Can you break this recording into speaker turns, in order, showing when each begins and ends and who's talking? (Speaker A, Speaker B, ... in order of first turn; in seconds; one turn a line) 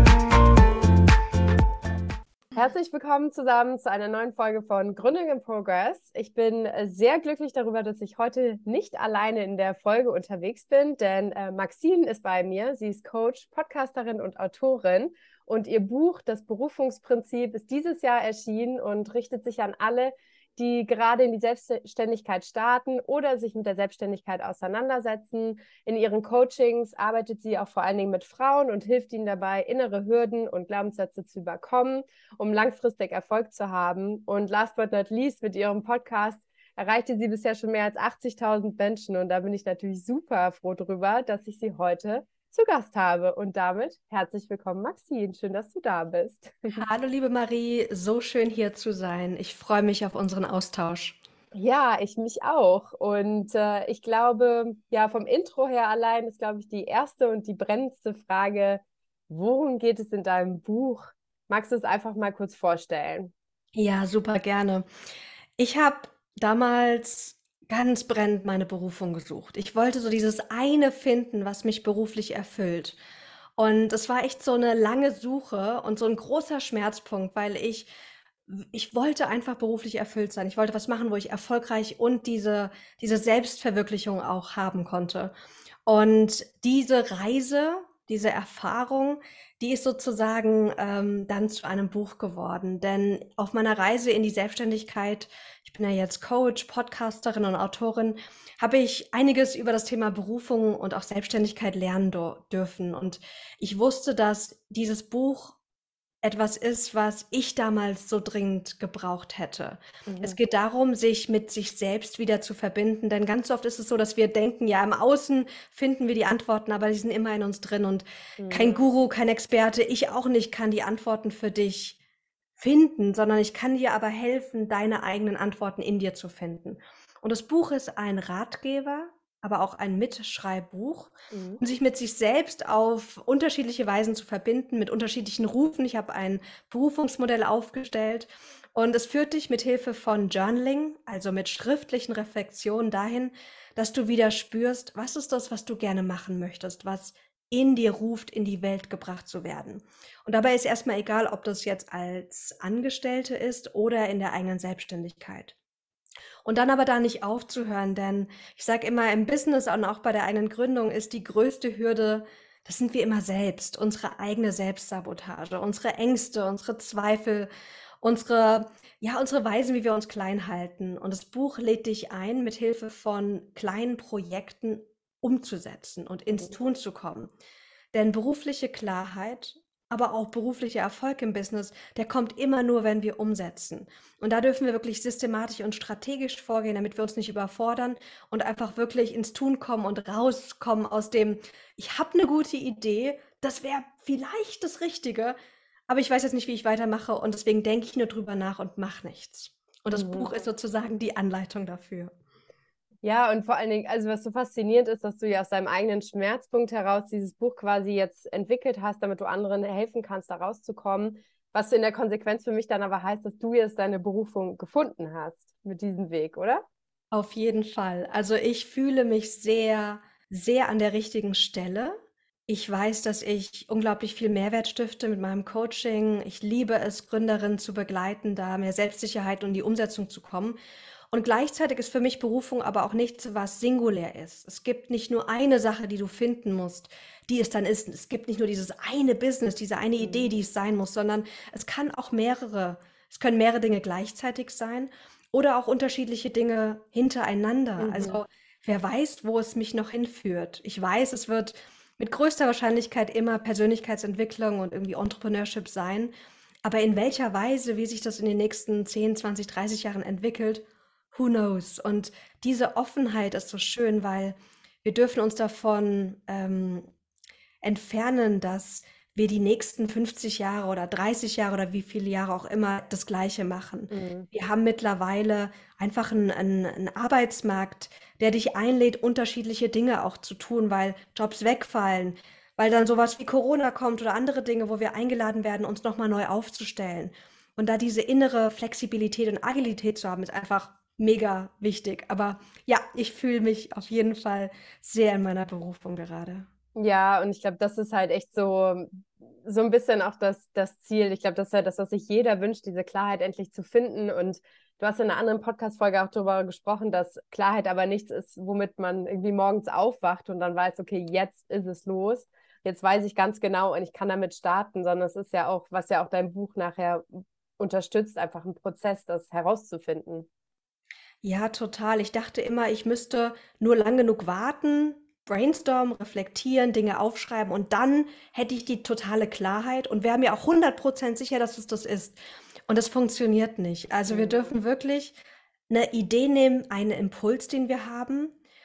Speaker A: 2.5-46.8
Speaker B: 46.7-51.2
Speaker A: 51.5-63.3
Speaker B: 63.8-64.8
Speaker B: 65.6-73.0
Speaker B: 73.6-77.9
Speaker B: 78.5-85.3
Speaker B: 85.8-105.6
Speaker B: 106.2-122.0
Speaker A: 110.1-110.4
Speaker A: 118.4-118.8
Speaker B: 122.6-155.5
Speaker A: 131.3-131.6
Speaker B: 156.4-167.5
Speaker B: 168.0-177.3
Speaker B: 177.9-195.3
Speaker B: 195.9-202.1
Speaker A: 199.9-200.3
Speaker A: 203.0-216.6
Speaker B: 217.1-230.6
Speaker B: 231.1-256.1
Speaker A: 240.0-240.3
Speaker A: 247.8-248.2
Speaker B: 256.6-266.9
Speaker B: 267.6-296.5
Speaker A: 273.9-274.3
Speaker A: 296.7-320.3
Speaker B: 321.2-335.1
Speaker A: 334.1-334.5
Speaker B: 335.7-338.3